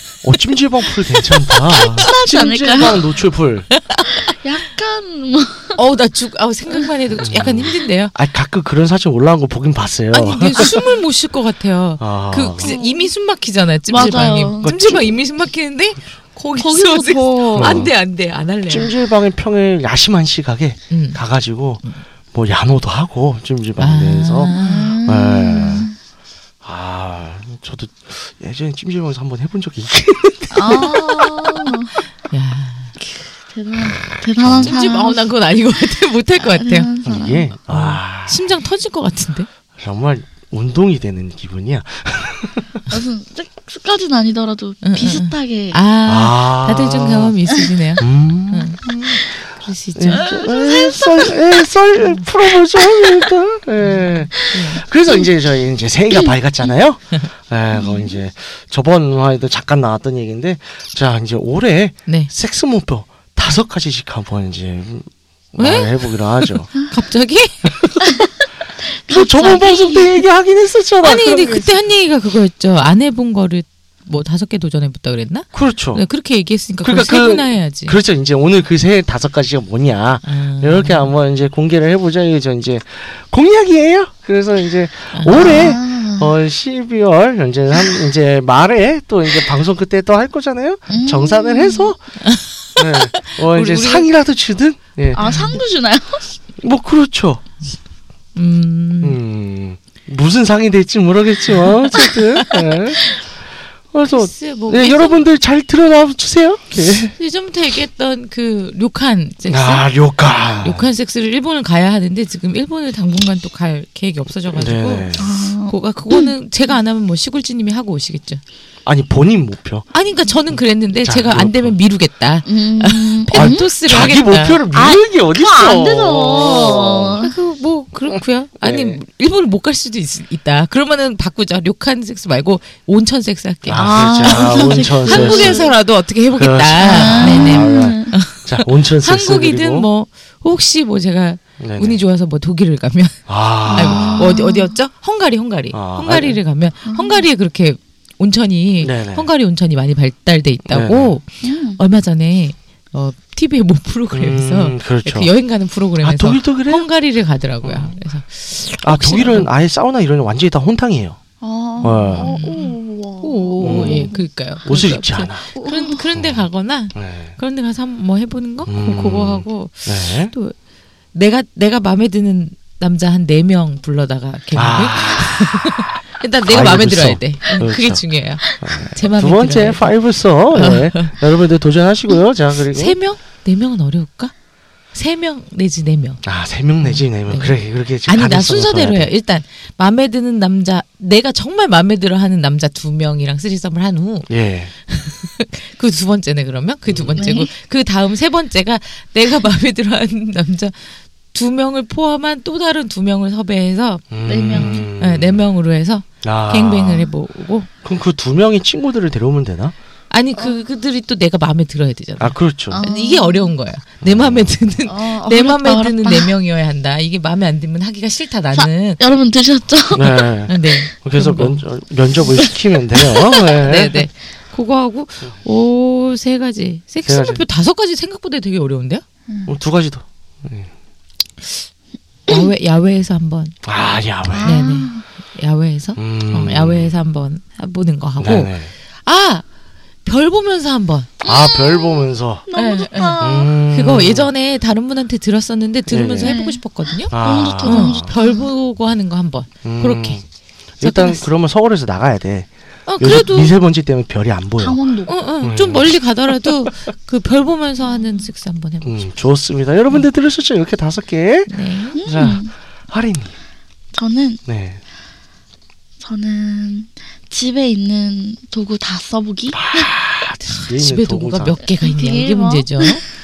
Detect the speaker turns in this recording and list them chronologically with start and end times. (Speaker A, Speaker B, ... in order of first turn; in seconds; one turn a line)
Speaker A: 0.2-3.7
Speaker B: 1.7-3.2
Speaker C: 3.7-4.3
Speaker B: 4.1-5.8
Speaker C: 5.8-8.1
Speaker A: 7.2-10.8
Speaker C: 10.1-18.9
Speaker A: 12.0-12.8
Speaker B: 12.6-13.1
Speaker B: 13.9-14.8
Speaker A: 13.9-15.2
Speaker B: 16.6-17.9
Speaker A: 17.5-17.9
Speaker A: 18.7-25.9
Speaker C: 20.9-21.2
Speaker C: 23.8-25.0
Speaker B: 24.5-25.9
Speaker A: 26.6-31.7
Speaker B: 30.5-31.9
Speaker C: 32.3-33.0
Speaker B: 33.0-35.3
Speaker A: 34.4-34.9
Speaker C: 34.6-36.9
Speaker B: 36.4-37.5
Speaker A: 37.0-38.5
Speaker C: 37.6-39.5
Speaker A: 39.8-42.8
Speaker B: 42.9-45.8
Speaker C: 44.8-50.3
Speaker A: 46.1-47.4
Speaker A: 48.0-49.2
Speaker A: 50.0-66.7
Speaker B: 50.1-51.4
Speaker B: 52.9-53.2
Speaker C: 53.8-54.8
Speaker B: 57.7-58.1
Speaker C: 65.6-67.6
Speaker A: 67.7-68.1
Speaker B: 69.1-70.2
Speaker A: 69.1-71.8
Speaker C: 69.4-69.7
Speaker C: 71.0-78.0
Speaker A: 75.5-76.0
Speaker A: 76.8-92.0
Speaker C: 80.2-81.1
Speaker C: 85.1-85.6
Speaker B: 85.4-86.3
Speaker B: 90.9-91.9
Speaker C: 92.2-94.1
Speaker A: 92.8-95.4
Speaker B: 95.2-96.2
Speaker C: 95.2-95.6
Speaker A: 96.6-97.4
Speaker C: 98.3-99.2
Speaker A: 99.0-103.2
Speaker B: 102.0-102.6
Speaker A: 103.9-107.1
Speaker C: 104.1-105.3
Speaker C: 107.2-109.9
Speaker A: 109.5-110.9
Speaker C: 110.6-118.4
Speaker A: 114.5-115.3
Speaker B: 115.2-116.3
Speaker A: 118.8-119.9
Speaker C: 119.9-124.6
Speaker A: 120.5-121.8
Speaker B: 122.5-123.7
Speaker A: 123.3-127.3
Speaker B: 124.7-127.3
Speaker C: 127.2-159.5
Speaker A: 128.6-129.0
Speaker A: 133.7-135.7
Speaker B: 133.7-135.7
Speaker A: 136.3-139.9
Speaker B: 136.8-138.2
Speaker A: 141.6-142.0
Speaker A: 143.3-144.4
Speaker B: 143.7-144.8
Speaker A: 145.7-146.4
Speaker B: 146.9-147.3
Speaker A: 148.8-149.3
Speaker A: 150.7-151.2
Speaker B: 151.4-151.8
Speaker A: 154.1-155.3
Speaker A: 156.0-156.9
Speaker A: 157.6-157.9
Speaker A: 158.7-161.2
Speaker B: 161.4-164.2
Speaker A: 161.8-162.3
Speaker C: 161.8-170.5
Speaker A: 163.6-165.5
Speaker B: 165.6-166.0
Speaker A: 166.1-167.4
Speaker A: 168.7-170.3
Speaker C: 171.1-179.9
Speaker A: 174.6-183.0
Speaker C: 180.5-181.2
Speaker C: 182.7-184.3
Speaker C: 184.9-186.2
Speaker A: 186.2-189.1
Speaker C: 186.8-194.3
Speaker A: 194.3-194.7
Speaker C: 194.9-207.7
Speaker A: 196.9-197.2
Speaker B: 197.2-197.5
Speaker A: 204.1-205.4
Speaker B: 204.3-204.9
Speaker A: 206.2-207.1
Speaker A: 207.8-209.8
Speaker C: 210.1-219.0
Speaker A: 212.2-212.8
Speaker B: 212.7-213.5
Speaker A: 214.0-214.6
Speaker B: 214.9-216.3
Speaker B: 218.5-220.3
Speaker A: 219.9-224.0
Speaker C: 220.5-221.6
Speaker B: 222.4-223.6
Speaker C: 223.6-229.0
Speaker A: 227.1-227.4
Speaker B: 229.3-229.5
Speaker A: 229.5-230.7
Speaker C: 232.3-233.6
Speaker A: 233.6-234.6
Speaker B: 234.3-235.1
Speaker C: 234.4-239.4
Speaker A: 236.0-236.9
Speaker A: 238.2-238.7
Speaker C: 240.1-241.1
Speaker B: 241.2-243.5
Speaker A: 241.2-242.5
Speaker C: 242.6-243.2
Speaker A: 243.2-244.3
Speaker C: 243.7-250.2
Speaker A: 245.9-246.4
Speaker B: 246.2-248.5
Speaker A: 247.1-248.1
Speaker A: 249.6-250.2
Speaker A: 250.8-254.8
Speaker C: 250.8-251.3
Speaker C: 252.9-253.5
Speaker B: 254.6-255.1
Speaker C: 255.1-259.0
Speaker A: 255.4-256.6
Speaker B: 257.9-258.2
Speaker A: 258.8-261.5
Speaker C: 261.5-262.1
Speaker B: 261.9-262.5
Speaker A: 262.0-263.3
Speaker B: 263.9-264.4
Speaker A: 264.5-264.8
Speaker B: 266.0-269.9
Speaker A: 269.5-271.6
Speaker C: 270.5-273.0
Speaker B: 271.8-273.0